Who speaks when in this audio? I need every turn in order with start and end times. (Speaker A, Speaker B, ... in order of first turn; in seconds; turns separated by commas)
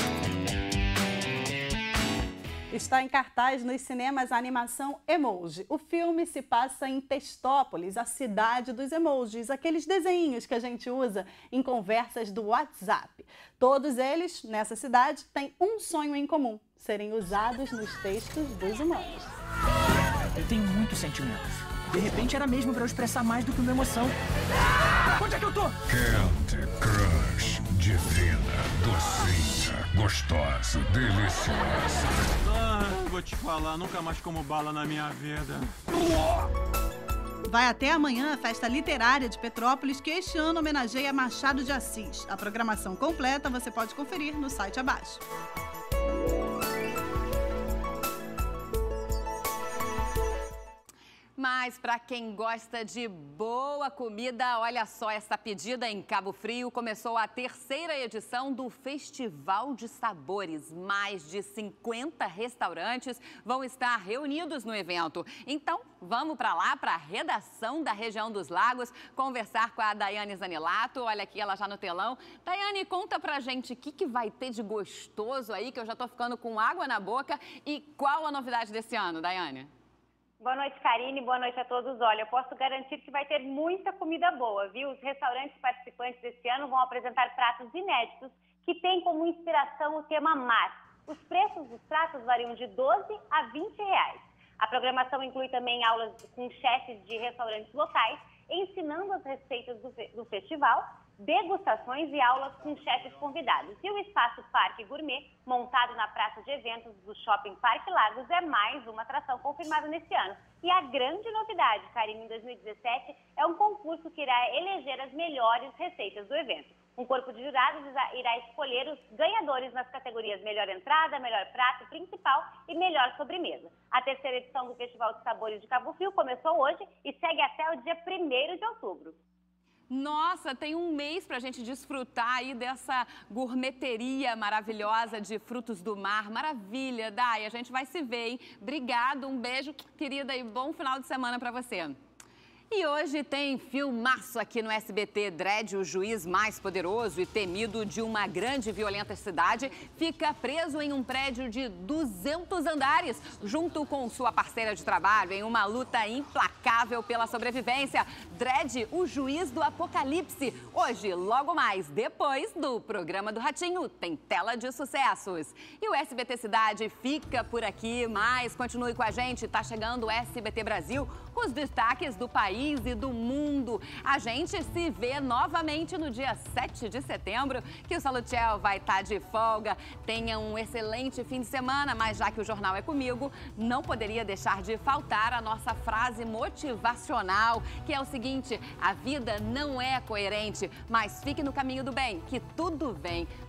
Speaker A: 2.7-19.2, Speaker B: 20.4-24.2, Speaker B: 25.2-25.8, Speaker C: 25.9-31.9, Speaker D: 32.5-36.0, Speaker A: 37.5-45.2, Speaker E: 51.4-79.7, Speaker F: 80.4-129.2, Speaker E: 129.9-142.0, Speaker E: 142.7-193.3